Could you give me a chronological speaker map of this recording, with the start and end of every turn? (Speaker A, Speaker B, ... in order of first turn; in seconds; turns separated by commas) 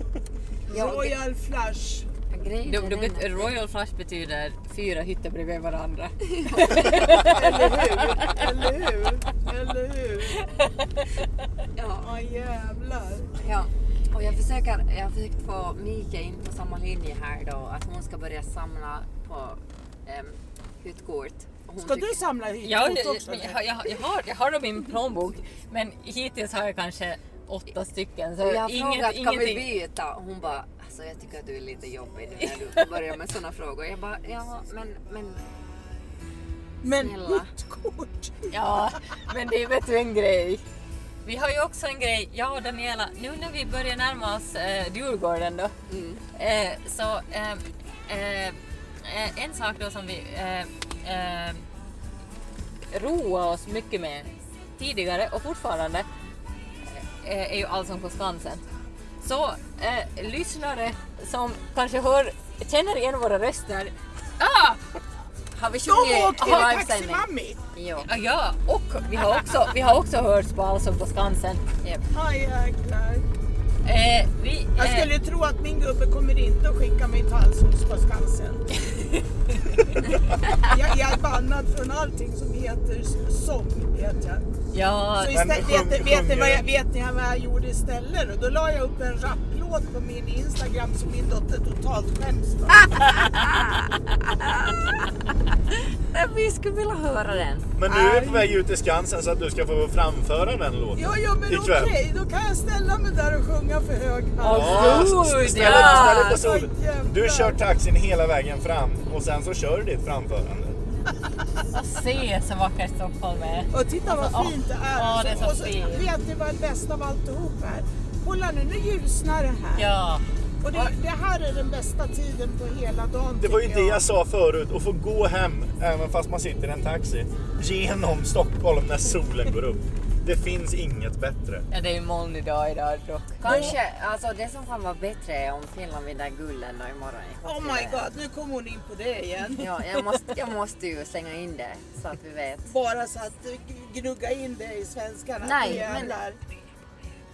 Speaker A: 0.7-1.2, Speaker B: 0.7-2.1, Speaker A: 2.3-3.5, Speaker C: 2.6-8.4, Speaker A: 6.4-7.6, Speaker B: 7.2-10.5, Speaker A: 11.8-12.1, Speaker B: 11.9-13.3, Speaker A: 13.4-22.3, Speaker B: 21.8-23.6, Speaker C: 22.6-29.8, Speaker A: 28.4-35.4, Speaker B: 36.8-38.5, Speaker A: 37.0-37.5, Speaker C: 38.5-40.6, Speaker C: 41.2-45.7, Speaker A: 45.9-46.2, Speaker C: 46.3-51.6, Speaker C: 52.9-56.1, Speaker C: 56.9-58.6, Speaker C: 59.2-64.8, Speaker A: 65.5-68.1, Speaker B: 65.8-67.6, Speaker C: 68.0-71.6, Speaker B: 72.1-73.2, Speaker C: 73.8-75.1, Speaker B: 74.8-78.6, Speaker B: 80.5-84.4, Speaker C: 84.7-85.4, Speaker B: 85.2-92.9, Speaker D: 85.3-86.6, Speaker A: 92.8-95.0, Speaker A: 96.1-98.4, Speaker D: 97.8-101.9, Speaker B: 100.9-105.1, Speaker C: 104.4-106.3, Speaker D: 104.5-110.8, Speaker A: 105.5-106.4, Speaker B: 106.2-107.6, Speaker C: 111.7-116.1, Speaker B: 113.7-119.9, Speaker C: 119.8-120.2, Speaker B: 120.6-124.0, Speaker D: 123.4-131.7, Speaker C: 131.7-133.7, Speaker A: 133.4-138.1, Speaker B: 133.4-133.7, Speaker B: 137.4-139.7, Speaker A: 139.6-142.7, Speaker B: 142.7-146.4, Speaker A: 145.4-146.2